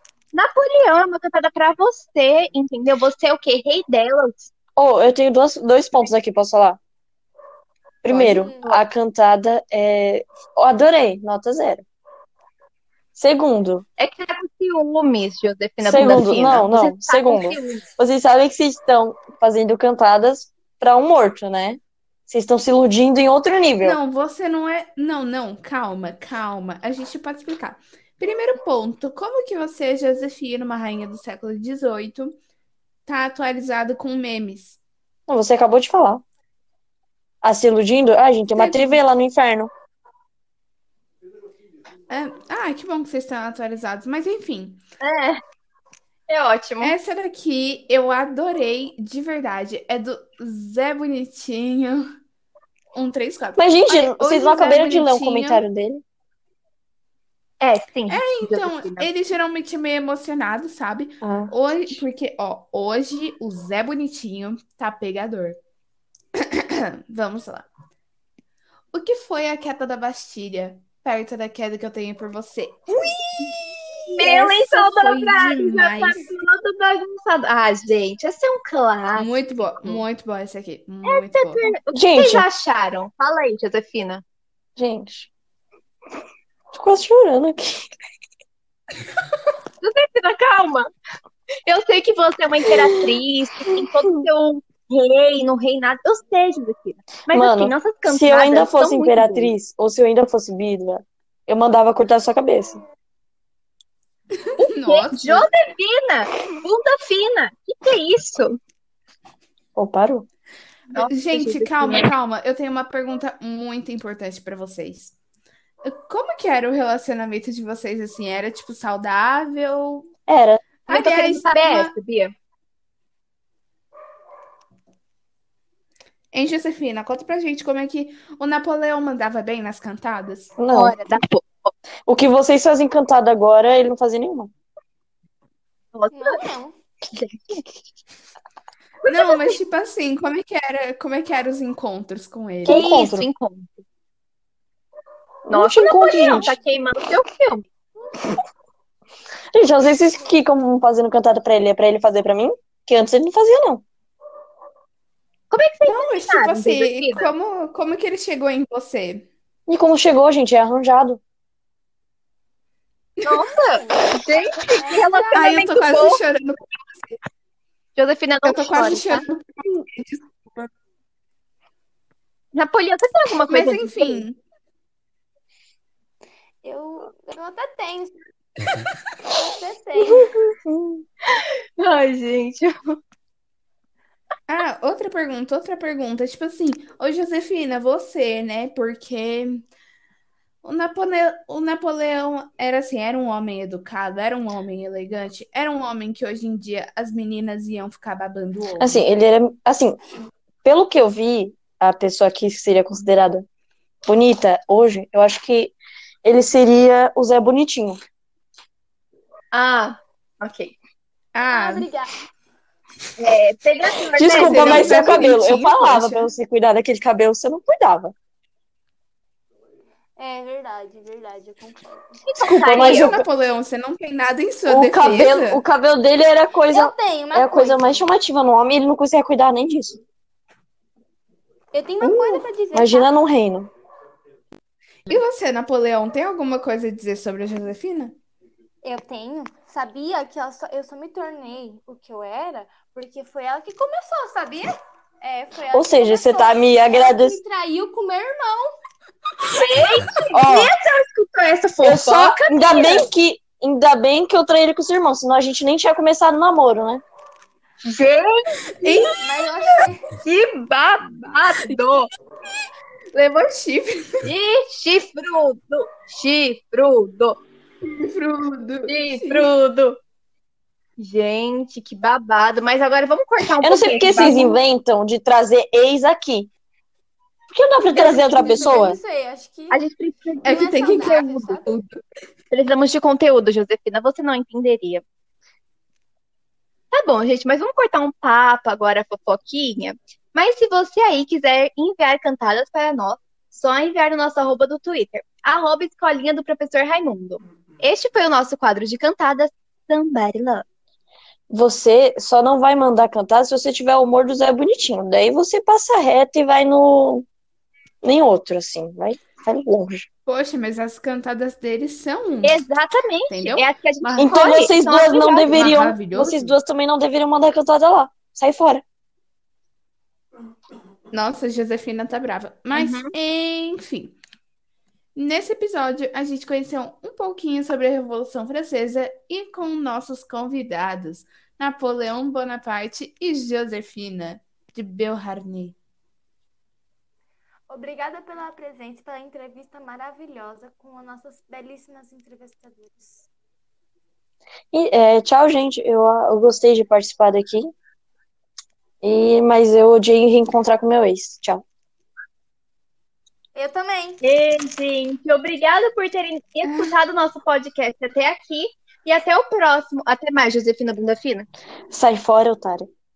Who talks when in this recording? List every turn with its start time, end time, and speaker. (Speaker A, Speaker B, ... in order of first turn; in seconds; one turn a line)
Speaker A: 0.3-4.5
Speaker B: 4.8-6.8
Speaker B: 8.0-11.8
Speaker C: 8.2-8.8
Speaker B: 13.2-13.8
Speaker A: 14.0-17.8
Speaker B: 15.8-24.0
Speaker D: 23.8-32.4
Speaker D: 33.1-34.8
Speaker B: 35.3-36.2
Speaker B: 37.4-39.7
Speaker D: 38.5-39.0
Speaker D: 42.1-44.8
Speaker A: 45.0-45.4
Speaker A: 46.3-47.0
Speaker D: 46.8-52.1
Speaker D: 52.9-55.6
Speaker B: 53.6-56.0
Speaker A: 57.6-59.1
Speaker D: 58.1-65.6
Speaker B: 61.2-61.5
Speaker D: 66.4-67.7
Speaker D: 68.9-73.6
Speaker D: 74.1-76.3
Speaker A: 74.2-80.0
Speaker D: 79.2-81.7
Speaker A: 81.0-84.2
Speaker B: 81.9-82.5
Speaker B: 84.8-85.3
Speaker B: 86.7-87.9
Speaker A: 89.8-90.9
Speaker A: 91.7-99.5
Speaker B: 97.3-102.8
Speaker D: 104.5-105.5
Speaker A: 104.6-108.6
Speaker B: 109.8-110.3
Speaker A: 110.9-112.1
Speaker D: 110.9-115.2
Speaker D: 115.8-120.1
Speaker B: 120.3-120.6
Speaker D: 120.8-121.9
Speaker A: 120.9-122.3
Speaker D: 126.3-130.5
Speaker B: 130.6-131.0
Speaker A: 130.7-131.7
Speaker B: 132.1-134.5
Speaker A: 135.9-136.5
Speaker C: 136.1-136.8
Speaker A: 137.1-137.7
Speaker A: 139.1-139.6
Speaker D: 139.1-142.9
Speaker B: 142.7-143.3
Speaker A: 142.7-143.8
Speaker B: 145.5-146.5
Speaker A: 145.5-147.7
Speaker B: 149.5-153.8
Speaker A: 155.5-157.3
Speaker D: 155.8-159.3
Speaker B: 159.7-161.2
Speaker A: 163.2-166.2
Speaker C: 163.7-164.2
Speaker C: 164.7-165.6
Speaker D: 165.3-167.2
Speaker A: 168.0-169.2
Speaker D: 168.4-170.7
Speaker A: 172.5-174.2
Speaker D: 173.5-174.4
Speaker C: 176.6-178.2
Speaker C: 179.3-180.4
Speaker B: 180.0-181.0
Speaker A: 181.3-183.0
Speaker D: 184.5-189.7
Speaker D: 190.6-199.1
Speaker B: 198.8-200.0
Speaker B: 200.6-203.5
Speaker B: 204.1-208.0
Speaker A: 209.5-210.8
Speaker D: 211.3-211.9
Speaker C: 211.4-212.1
Speaker A: 213.2-215.2
Speaker B: 214.2-218.1
Speaker D: 214.3-216.3
Speaker C: 220.2-222.2
Speaker A: 222.2-223.2
Speaker B: 222.4-223.2
Speaker D: 222.7-225.6
Speaker B: 224.7-230.0
Speaker C: 226.7-228.1
Speaker C: 231.7-233.1
Speaker B: 232.0-233.7
Speaker D: 235.1-238.2
Speaker C: 238.8-248.8
Speaker B: 245.7-247.4
Speaker A: 249.5-253.1
Speaker B: 250.3-250.7
Speaker B: 251.8-257.0
Speaker A: 257.8-258.4
Speaker D: 258.8-259.8
Speaker C: 259.0-260.1
Speaker A: 260.2-262.1
Speaker D: 263.1-264.2
Speaker A: 264.2-267.4
Speaker D: 267.8-269.5
Speaker A: 268.9-270.0
Speaker A: 271.0-274.6
Speaker B: 273.6-276.5
Speaker B: 277.5-279.0
Speaker C: 277.9-279.8
Speaker A: 279.7-281.7
Speaker D: 280.4-281.1
Speaker C: 280.4-281.7
Speaker D: 281.7-282.0
Speaker A: 282.5-285.0
Speaker A: 286.9-300.6
Speaker B: 301.5-307.3
Speaker B: 308.0-310.1
Speaker D: 310.3-312.6
Speaker A: 312.4-315.9
Speaker D: 313.3-314.4
Speaker B: 314.2-318.8
Speaker D: 315.5-316.6
Speaker D: 321.1-324.2
Speaker A: 322.7-323.1
Speaker D: 325.1-335.8
Speaker C: 337.7-343.3
Speaker B: 344.7-347.7
Speaker B: 349.0-351.6
Speaker C: 353.6-354.2
Speaker A: 354.2-361.5
Speaker B: 361.9-362.9